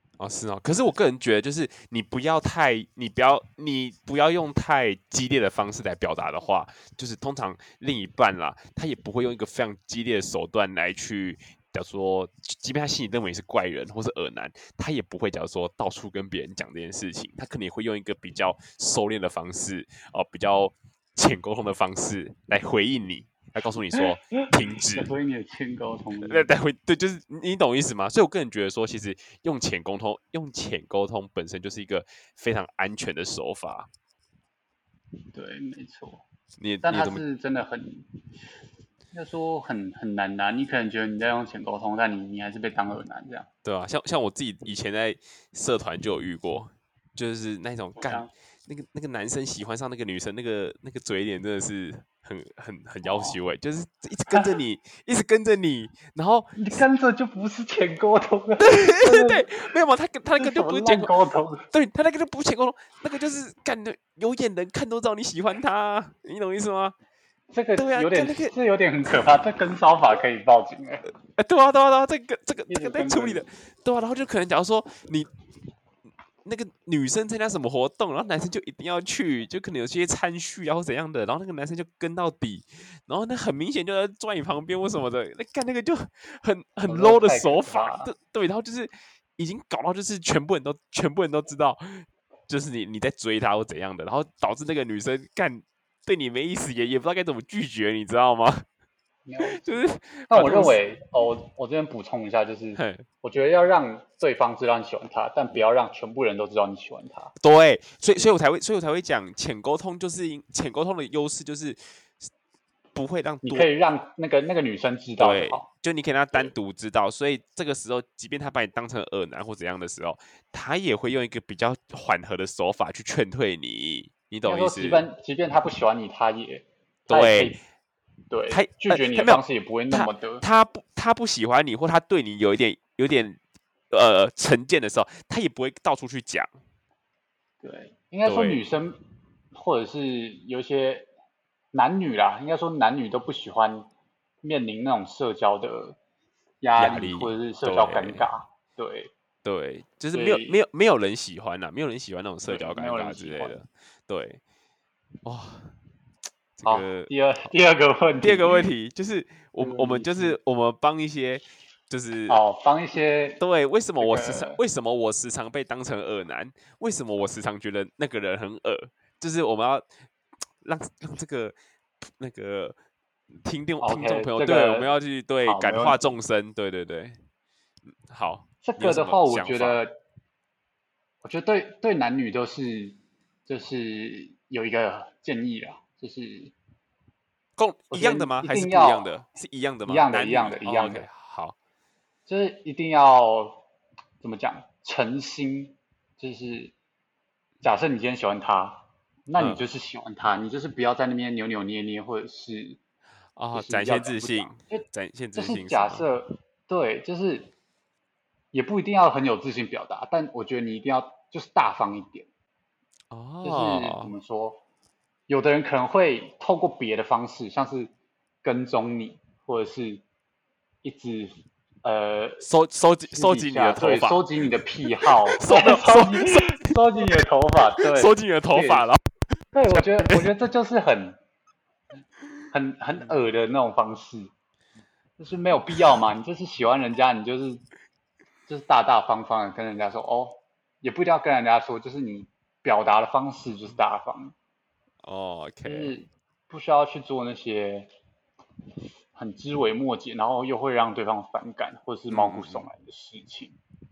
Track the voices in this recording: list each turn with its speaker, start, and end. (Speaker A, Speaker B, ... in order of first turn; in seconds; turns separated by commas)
Speaker A: 0.2-25.1, Speaker B: 24.0-26.5, Speaker A: 26.2-33.9, Speaker B: 35.3-36.2, Speaker A: 36.6-37.2, Speaker B: 36.8-38.1, Speaker B: 39.1-43.5, Speaker A: 43.6-56.6, Speaker B: 48.0-48.3, Speaker B: 53.0-53.4, Speaker B: 56.6-59.7, Speaker A: 58.6-61.1, Speaker B: 60.4-61.7, Speaker A: 61.7-67.0, Speaker B: 67.5-71.0, Speaker A: 67.8-68.5, Speaker A: 71.4-75.3, Speaker B: 72.7-73.5, Speaker A: 76.5-98.7, Speaker B: 86.9-88.1, Speaker B: 99.3-107.3, Speaker A: 99.4-100.8, Speaker A: 102.8-103.1, Speaker A: 107.4-112.3, Speaker A: 113.0-113.7, Speaker B: 113.4-115.7, Speaker A: 115.2-125.1, Speaker B: 124.5-127.6, Speaker A: 127.1-127.6, Speaker B: 128.3-130.4, Speaker A: 128.5-133.4, Speaker A: 133.9-136.5, Speaker B: 137.6-139.0, Speaker A: 138.2-138.6, Speaker B: 139.5-141.1, Speaker B: 141.7-143.9, Speaker B: 144.4-146.0, Speaker B: 146.6-149.1, Speaker A: 146.8-148.3, Speaker A: 149.4-154.4, Speaker B: 150.1-150.6, Speaker B: 152.5-153.6, Speaker A: 155.2-155.7, Speaker A: 156.6-157.1, Speaker B: 156.6-158.7, Speaker A: 158.2-162.4, Speaker B: 159.6-160.4, Speaker B: 162.3-163.4, Speaker A: 163.4-169.9, Speaker B: 164.0-164.6, Speaker A: 170.6-171.6, Speaker A: 172.2-172.8, Speaker A: 173.4-177.2, Speaker B: 173.8-174.9, Speaker B: 175.4-176.0, Speaker A: 178.1-179.8, Speaker B: 178.6-180.0, Speaker B: 181.2-186.5, Speaker A: 187.6-191.6, Speaker B: 187.9-189.1, Speaker B: 189.9-191.1, Speaker B: 192.3-193.6, Speaker B: 194.2-196.7, Speaker B: 197.6-202.8, Speaker A: 199.4-199.7, Speaker A: 203.4-206.1, Speaker B: 203.5-207.5, Speaker B: 208.5-212.3, Speaker A: 213.1-214.1, Speaker B: 213.4-214.6, Speaker B: 215.3-217.9, Speaker B: 218.4-220.0, Speaker B: 220.8-222.4, Speaker A: 222.4-224.3, Speaker B: 223.1-228.9, Speaker A: 225.0-227.1, Speaker A: 227.8-229.0, Speaker B: 229.5-231.2, Speaker A: 229.7-230.3, Speaker B: 232.5-234.3, Speaker B: 235.2-237.6, Speaker B: 238.5-244.3, Speaker A: 245.0-245.9, Speaker B: 245.7-247.9, Speaker B: 249.1-253.6, Speaker A: 252.1-252.7